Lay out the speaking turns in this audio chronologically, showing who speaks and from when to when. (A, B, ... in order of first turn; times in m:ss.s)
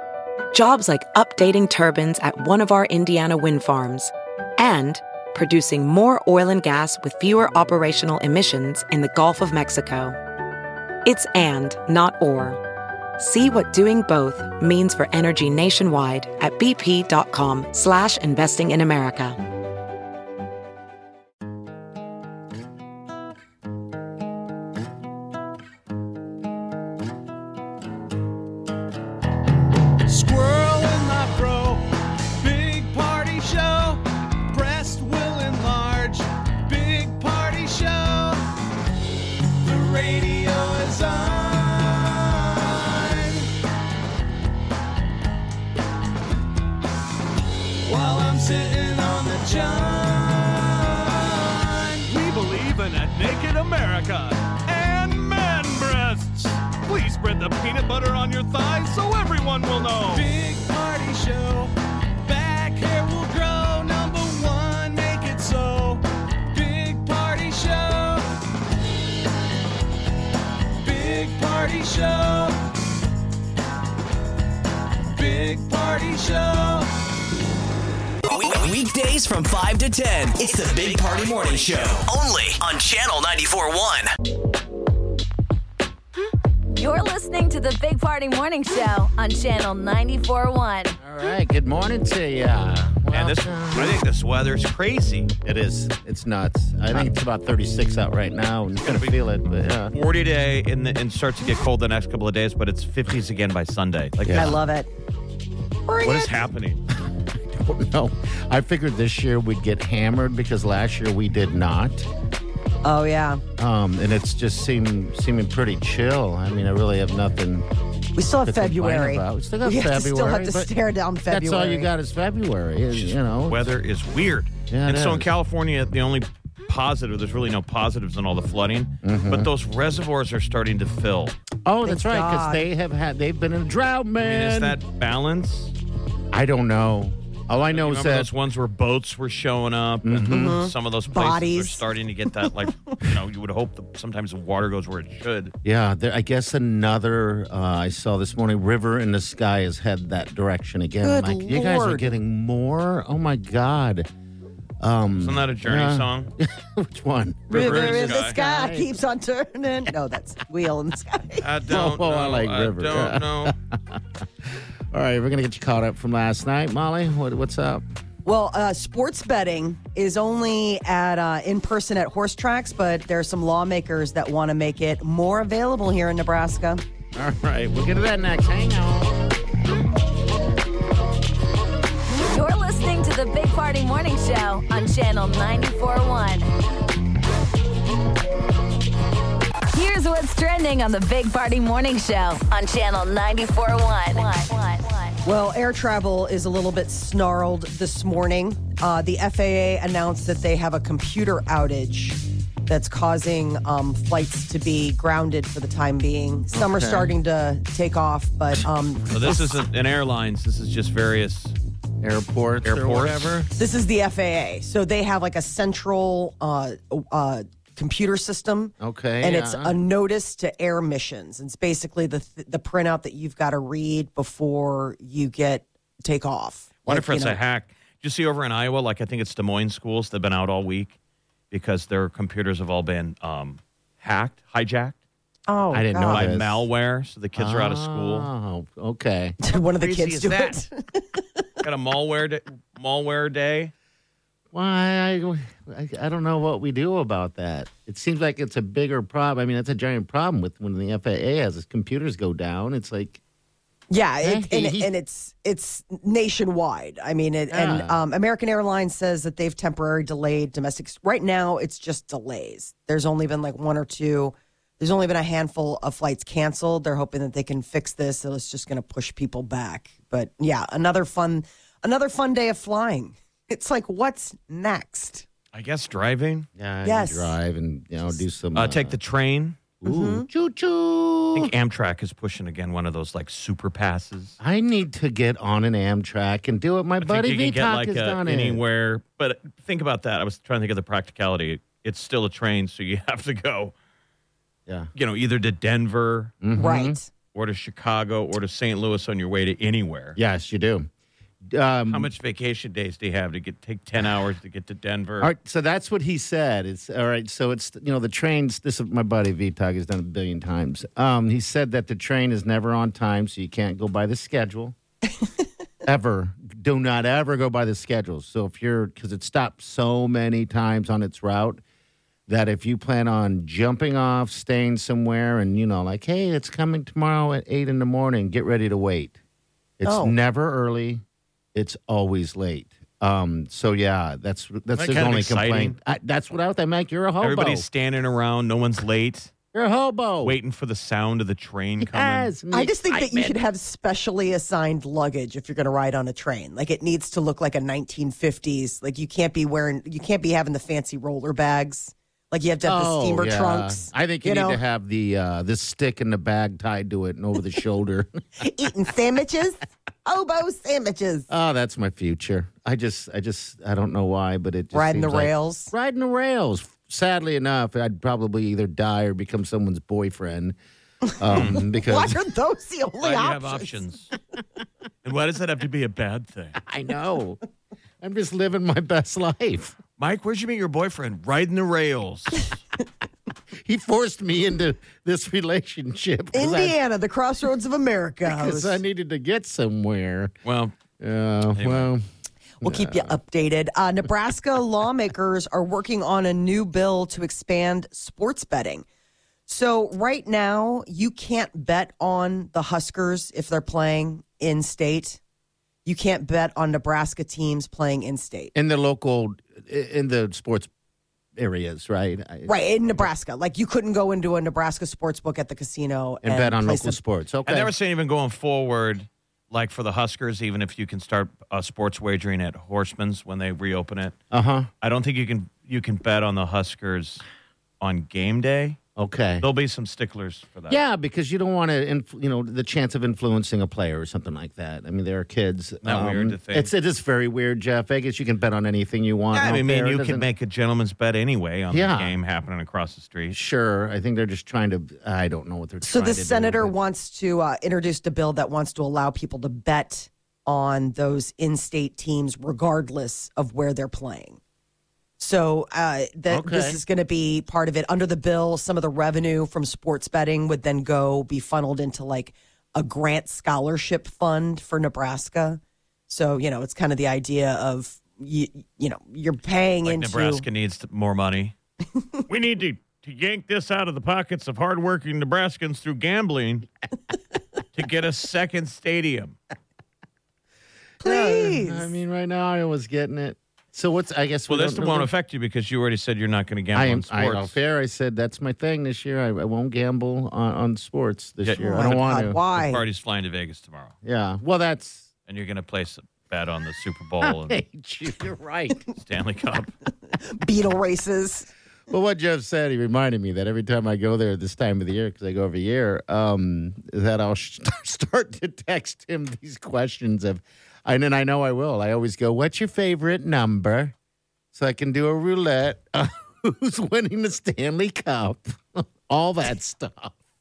0:00.5-0:10.2 A
0:11.0-0:12.6 A
0:13.2-0:19.4 A
0:30.1-0:31.8 B
0:32.4-0:38.4 B
0:39.6-0:43.5 B
0:47.8-0:52.1 B
0:52.1-1:00.3 C
0:54.6-0:55.8 B
0:58.6-0:58.9 B
1:00.0-1:08.2 B
1:10.8-1:12.6 B
1:15.1-1:16.9 B
1:18.3-1:24.1 D
1:26.8-1:31.0 E
1:31.0-1:33.9 F
1:33.1-1:35.3 C
1:35.4-1:39.9 F
1:38.8-1:39.2 C
1:39.9-1:44.6 C
1:44.2-1:44.6 F
1:44.4-1:44.9 G
1:45.9-1:46.3 G
1:46.0-1:46.8 C
1:46.1-1:46.3 F
1:46.9-1:52.1 F
1:52.8-1:53.4 G
1:53.6-1:57.7 F
1:58.2-2:01.9 G
1:58.4-2:00.7 F
2:01.3-2:03.6 F
2:02.9-2:11.4 C
2:04.7-2:05.3 F
2:09.0-2:09.5 F
2:11.6-2:14.8 F
2:11.8-2:12.7 G
2:14.2-2:15.7 C
2:16.3-2:18.3 F
2:17.7-2:25.5 C
2:20.0-2:20.6 F
2:20.3-2:21.9 G
2:25.6-2:34.1 F
2:31.0-2:32.1 G
2:34.8-2:38.9 F
2:35.2-2:36.3 C
2:37.5-2:38.4 C
2:37.5-2:41.4 G
2:41.4-2:43.5 C
2:41.7-2:47.8 F
2:48.2-2:56.8 G
2:57.2-2:59.2 F
3:02.3-3:06.5 E
3:09.7-3:15.2 E
3:15.2-3:29.6 G
3:26.5-3:27.1 F
3:29.1-3:31.6 C
3:32.0-3:33.5 F
3:32.6-3:33.3 C
3:33.6-3:47.4 G
3:38.8-3:39.7 F
3:46.9-3:51.0 C
3:51.5-3:55.0 C
3:55.5-3:56.3 G
3:55.7-3:56.7 F
3:56.0-3:58.3 C
3:57.4-3:59.4 F
3:59.4-4:01.2 G
3:59.8-4:00.6 C
4:01.6-4:03.7 C
4:04.5-4:13.2 F
4:13.9-4:35.3 G
4:14.2-4:14.9 F
4:17.5-4:18.0 F
4:35.5-4:36.5 C
4:36.6-4:39.0 F
4:36.8-4:37.4 G
4:38.6-4:39.6 C
4:39.8-4:41.5 F
4:39.8-4:40.3 G
4:41.3-4:44.4 C
4:44.4-4:48.6 F
4:47.0-4:53.7 C
4:55.0-4:56.4 C
4:56.4-4:57.0 F
4:56.6-4:57.1 G
4:57.3-5:00.2 C
5:00.2-5:00.9 F
5:01.5-5:02.1 F
5:01.9-5:05.3 C
5:05.2-5:14.8 F
5:15.8-5:21.6 F
5:22.3-5:29.2 F
5:29.8-5:31.0 F
5:29.8-5:30.2 G
5:31.6-5:37.6 F
5:34.8-5:35.8 C
5:37.2-5:39.3 C
5:39.5-5:40.4 F
5:40.2-5:42.3 C
5:41.8-5:43.4 F
5:42.5-5:54.6 G
5:52.7-5:58.1 F
5:58.4-6:01.3 G
6:01.3-6:10.6 F
6:04.7-6:05.7 G
6:11.1-6:13.8 G
6:11.2-6:12.2 F
6:11.3-6:11.6 C
6:13.0-6:14.1 C
6:15.0-6:16.6 C
6:16.6-6:17.4 F
6:18.0-6:19.8 F
6:20.0-6:22.6 C
6:23.6-6:26.8 F
6:26.3-6:28.8 G
6:28.3-6:30.3 F
6:30.4-6:30.8 C
6:31.0-6:32.0 F
6:31.5-6:31.9 C
6:32.6-6:33.2 F
6:32.6-6:38.8 G
6:39.5-6:45.2 G
6:45.8-6:48.5 G
6:48.5-6:50.7 F
6:51.4-6:53.1 F
6:52.5-6:57.0 G
6:56.2-6:57.7 F
6:57.5-7:04.2 C
7:04.3-7:04.7 F
7:04.8-7:07.2 C
7:07.8-7:08.8 C
7:09.0-7:09.5 F
7:09.4-7:10.8 C
7:10.7-7:20.3 F
7:15.8-7:16.7 C
7:19.3-7:23.4 C
7:21.7-7:22.2 F
7:23.3-7:26.7 F
7:25.8-7:34.4 G
7:35.2-7:50.4 G
7:36.3-7:36.8 F
7:49.8-7:51.6 C
7:52.3-7:56.7 C
7:57.7-7:59.4 C
8:01.0-8:05.1 F
8:01.0-8:02.0 G
8:04.5-8:07.6 C
8:06.7-8:12.4 F
8:11.4-8:14.0 C
8:11.6-8:12.8 G
8:14.0-8:15.1 F
8:15.3-8:17.6 C
8:17.2-8:18.9 F
8:18.9-8:19.7 C
8:20.2-8:21.5 G
8:21.9-8:33.9 F
8:34.5-8:40.1 F